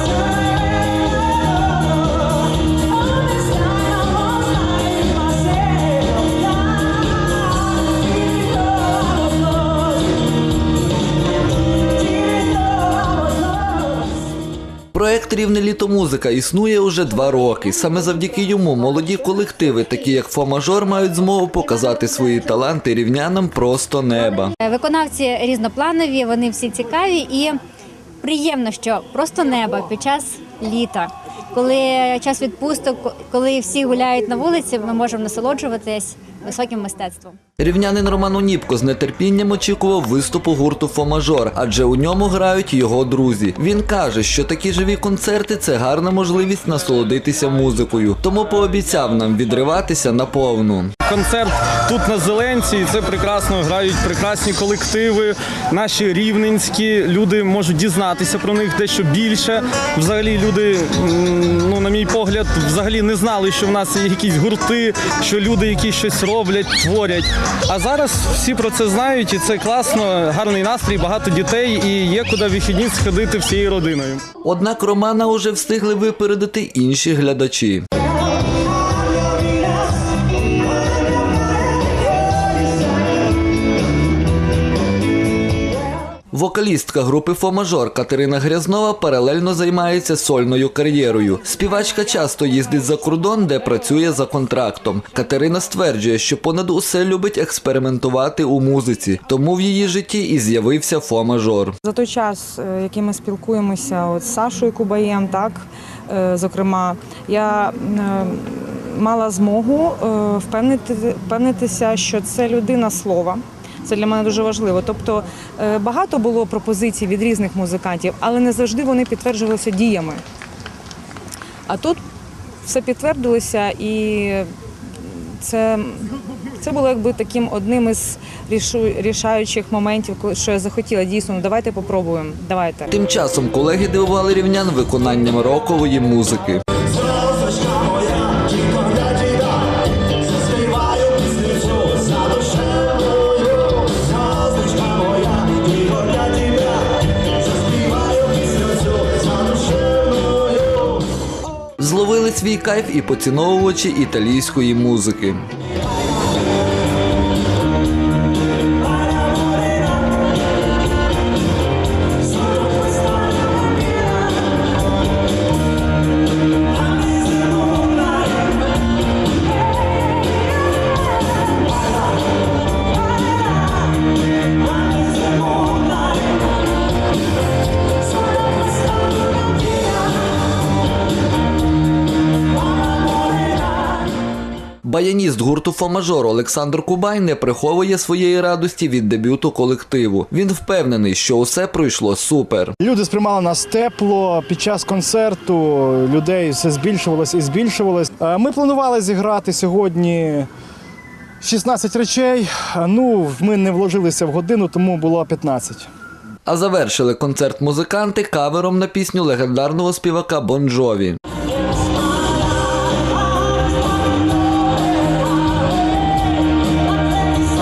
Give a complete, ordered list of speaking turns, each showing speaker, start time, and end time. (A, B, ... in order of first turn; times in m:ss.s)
0:05.1-0:06.4 A
0:14.9-0:24.5 B
0:24.6-0:27.6 A
0:28.2-0:37.4 A
0:37.6-0:50.9 B
0:51.0-1:14.2 C
1:14.4-1:17.9 B
1:26.3-1:41.8 B
1:41.8-2:00.2 D
2:01.7-2:02.0 D
2:02.6-2:04.5 D
2:05.0-2:12.9 D
2:12.9-2:16.6 B
2:31.8-2:35.4 B
3:04.8-3:12.8 B
3:12.8-3:20.5 E
3:21.4-3:25.9 E
3:26.5-3:31.2 B